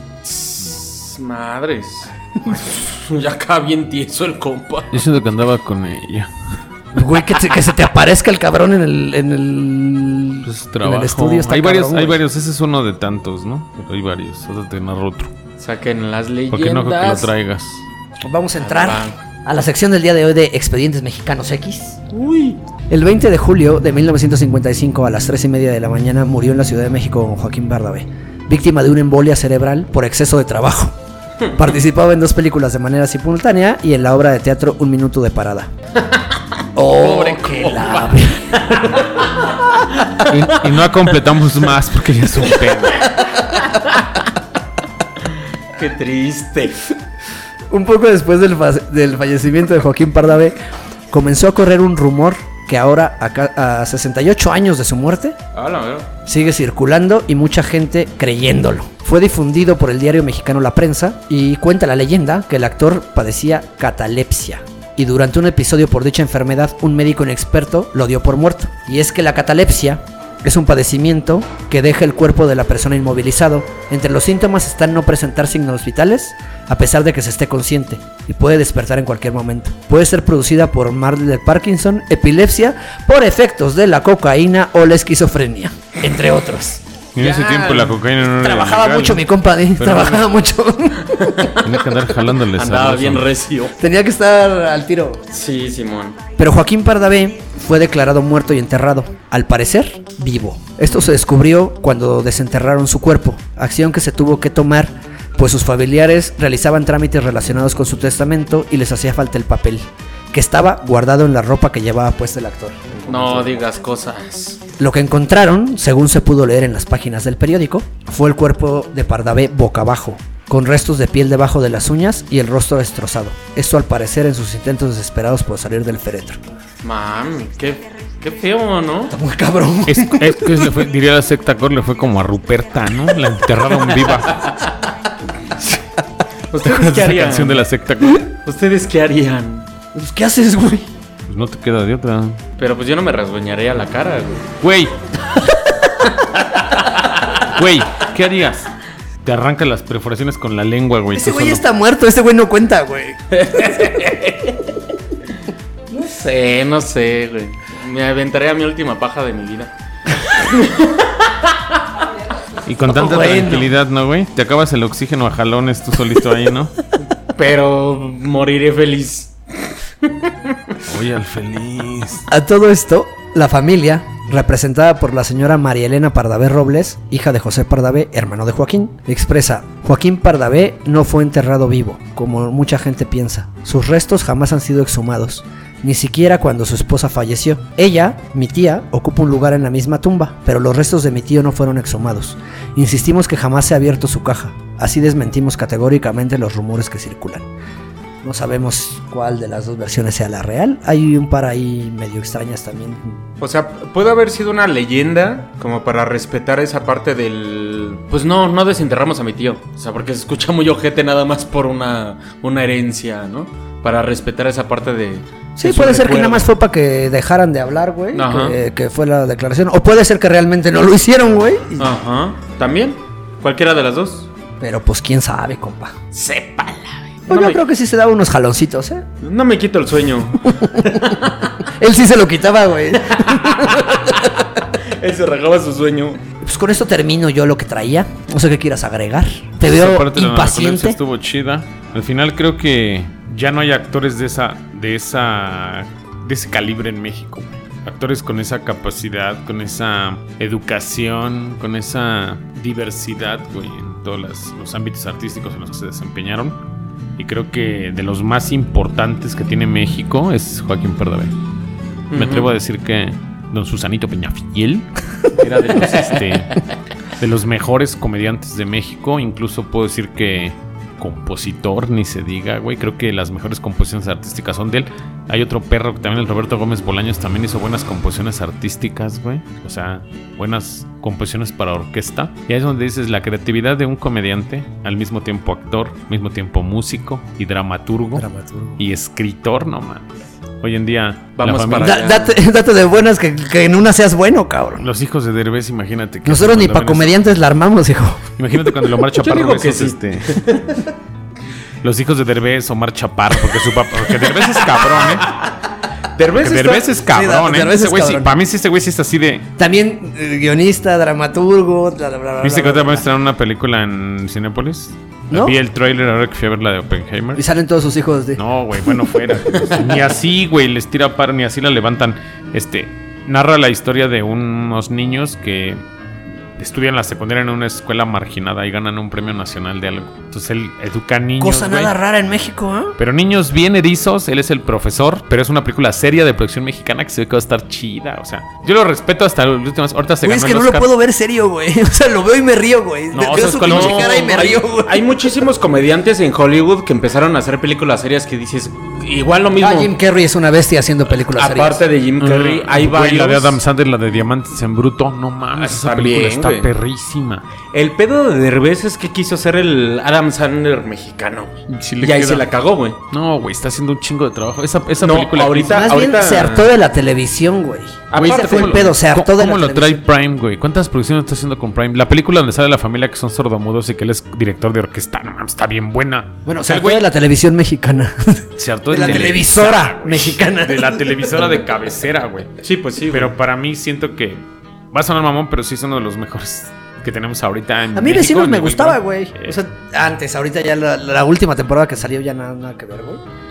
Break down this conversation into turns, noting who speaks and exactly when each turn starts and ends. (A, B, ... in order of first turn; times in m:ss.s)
0:00.2-0:05.0 A
0:04.9-0:06.3 B
0:06.9-0:12.2 C
0:10.4-0:15.3 B
0:15.6-0:17.3 A
0:16.5-0:17.8 B
0:18.2-0:22.1 C
0:18.6-0:19.2 A
0:22.1-0:22.6 A
0:22.9-0:31.0 C
0:31.5-0:35.7 C
0:36.8-0:38.6 C
0:37.0-0:40.9 A
0:40.2-0:43.1 B
0:43.4-0:43.9 A
0:45.8-0:46.8 A
0:47.7-0:50.6 C
0:51.1-0:55.4 C
0:55.5-0:56.1 A
0:56.3-1:26.8 C
1:27.2-1:30.3 B
1:27.2-1:27.9 A
1:28.2-1:31.6 C
1:31.1-1:31.6 A
1:31.6-1:33.3 B
1:32.5-1:33.8 A
1:33.8-1:35.2 C
1:35.3-1:36.2 A
1:36.4-1:53.6 C
1:53.1-1:54.6 A
1:54.8-2:06.4 C
2:06.8-2:09.1 A
2:09.1-2:10.6 C
2:09.9-2:14.4 B
2:16.5-2:17.7 A
2:16.6-2:18.3 B
2:18.2-2:19.7 A
2:19.9-2:20.9 C
2:21.3-2:22.4 B
2:22.6-2:24.5 A
2:24.6-2:25.0 B
2:26.8-2:27.4 A
2:27.4-2:28.7 B
2:29.2-2:31.6 B
2:31.1-2:33.3 C
2:33.3-2:34.6 A
2:35.9-2:41.8 A
2:42.6-2:46.7 B
2:42.9-2:43.7 C
2:47.4-2:50.6 A
2:50.8-2:52.3 B
2:52.3-3:17.5 C
3:18.2-3:23.2 C
3:23.4-3:36.5 A
3:35.6-3:41.9 C
3:38.1-3:38.6 A
3:41.8-3:44.3 A
3:44.6-3:45.9 C
3:46.1-3:47.6 A
3:47.3-3:49.1 C
3:49.2-3:51.5 A
3:50.4-3:54.3 C
3:53.1-3:56.2 A
3:56.4-4:01.0 C
3:59.6-4:16.6 B
4:17.2-4:21.4 B
4:22.1-4:22.5 A
4:22.1-4:26.6 B
4:25.4-4:26.4 A
4:27.2-4:48.3 B
4:48.2-4:48.8 C
4:48.8-4:52.0 B
4:51.4-4:52.4 A
4:51.8-4:54.8 C
4:54.8-4:57.2 B
4:56.2-4:58.3 C
4:58.4-5:00.5 B
4:59.1-5:00.8 A
5:01.8-5:05.3 B
5:04.7-5:05.4 A
5:06.2-5:07.0 A
5:06.3-5:09.5 B
5:07.0-5:08.3 C
5:09.6-5:13.1 C
5:12.4-5:17.4 B
5:15.3-5:15.6 C
5:17.4-5:18.4 C
5:18.4-5:25.8 B
5:26.6-5:32.0 B
5:31.4-5:33.0 C
5:33.0-5:40.9 B
5:40.2-5:45.2 C
5:43.1-5:44.5 B
5:43.6-5:49.9 A
5:49.6-5:51.8 C
5:51.1-5:53.6 A
5:52.2-5:57.4 B
5:55.6-5:56.7 A
5:57.7-6:03.0 A
6:01.7-6:02.5 B
6:03.1-6:05.9 B
6:05.0-6:06.7 A
6:05.7-6:10.0 C
6:08.1-6:08.9 A
6:08.1-6:17.0 B
6:16.5-6:21.5 C
6:18.6-6:22.5 B
6:22.6-6:23.3 A
6:23.1-6:29.6 B
6:27.9-6:33.2 C